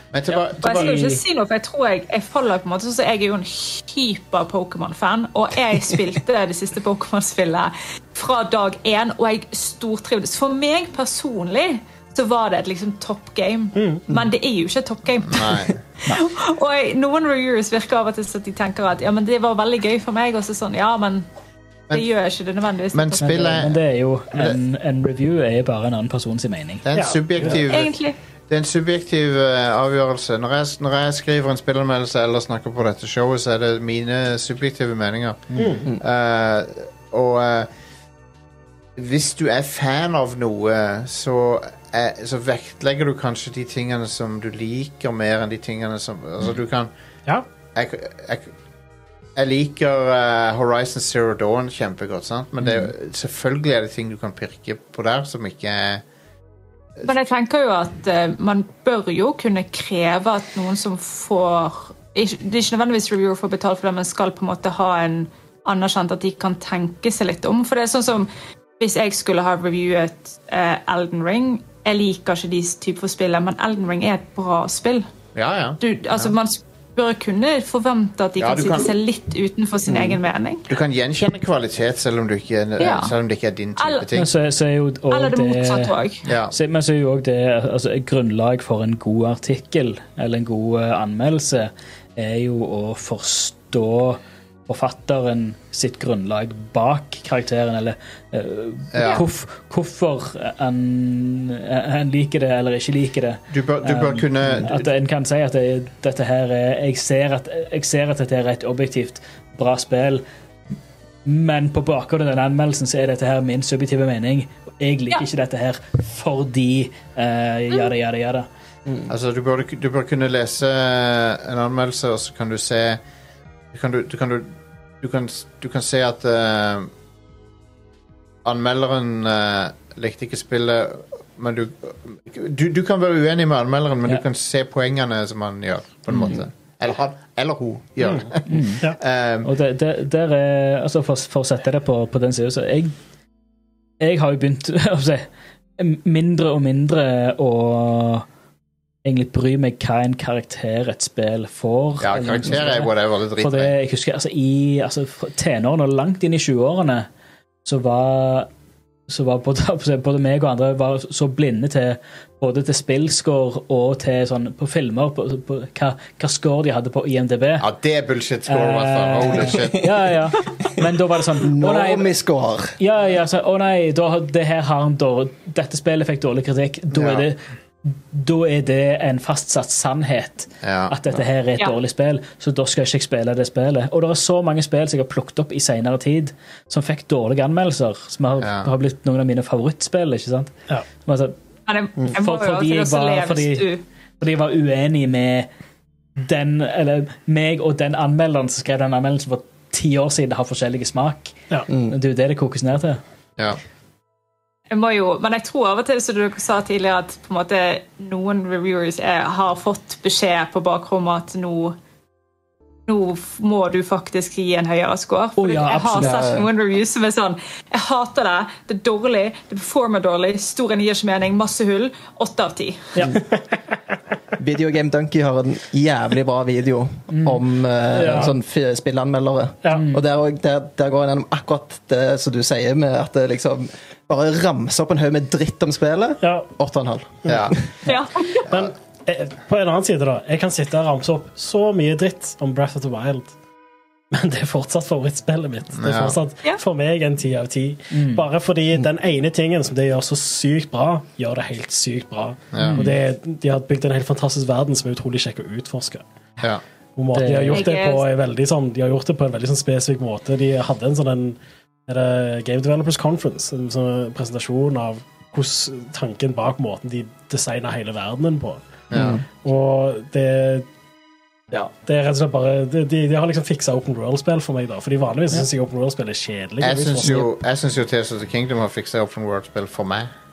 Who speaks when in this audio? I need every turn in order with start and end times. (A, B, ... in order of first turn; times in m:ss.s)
0:00.1-0:01.0 A
0:00.6-0:21.3 B
0:00.6-0:01.2 C
0:13.8-0:14.0 D
0:15.2-0:15.8 A
0:21.9-0:23.6 B
0:22.9-0:23.8 A
0:23.2-0:26.8 C
0:24.3-0:24.6 A
0:26.8-0:28.0 A
0:26.9-0:27.6 D
0:27.7-0:28.2 B
0:28.5-0:37.7 A
0:35.6-0:35.9 D
0:39.0-0:46.9 A
0:47.8-0:48.5 A
0:49.4-0:56.0 A
0:57.0-1:15.1 B
1:15.4-1:16.3 A
1:15.8-1:20.6 B
1:18.4-1:18.9 A
1:20.7-1:24.3 A
1:22.8-1:23.1 B
1:23.8-1:24.1 B
1:24.2-1:26.0 C
1:25.1-1:26.2 B
1:26.2-1:26.6 A
1:26.5-1:50.2 C
1:38.9-1:39.3 A
1:43.5-1:44.9 A
1:51.2-1:58.5 C
1:59.1-2:03.0 A
2:03.7-2:06.9 A
2:08.4-2:19.5 A
2:18.0-2:19.0 D
2:18.5-2:18.9 C
2:19.4-2:22.9 C
2:24.0-2:25.3 C
2:25.8-2:28.3 C
2:29.0-2:37.1 C
2:32.0-2:33.7 A
2:37.6-2:38.5 C
2:39.1-2:47.7 C
2:47.6-2:49.9 A
2:48.5-2:52.1 C
2:49.6-2:49.8 E
2:51.4-2:52.8 E
2:52.8-3:11.4 C
2:56.9-2:57.3 A
3:00.6-3:00.9 A
3:08.4-3:08.7 A
3:11.7-3:13.8 B
3:12.1-3:13.7 C
3:14.2-3:15.5 C
3:16.2-3:23.0 C
3:21.7-3:22.0 E
3:24.7-3:31.8 B
3:32.9-3:43.0 B
3:35.4-3:36.2 C
3:36.0-3:36.5 E
3:43.0-3:43.4 D
3:44.4-3:57.7 E
3:47.1-3:47.4 C
3:47.9-3:48.3 C
3:47.9-3:48.3 D
3:49.7-3:50.0 C
3:56.2-3:56.5 D
3:57.3-3:57.6 A
3:57.9-3:58.5 B
3:58.5-4:03.3 D
4:04.1-4:16.0 D
4:05.7-4:06.2 A
4:07.9-4:08.2 C
4:12.5-4:12.8 A
4:12.6-4:13.0 C
4:17.0-4:28.6 D
4:17.1-4:17.7 C
4:17.5-4:18.1 B
4:28.9-4:29.2 A
4:28.9-4:29.2 E
4:29.3-4:30.7 D
4:31.5-4:37.3 D
4:36.6-4:40.1 A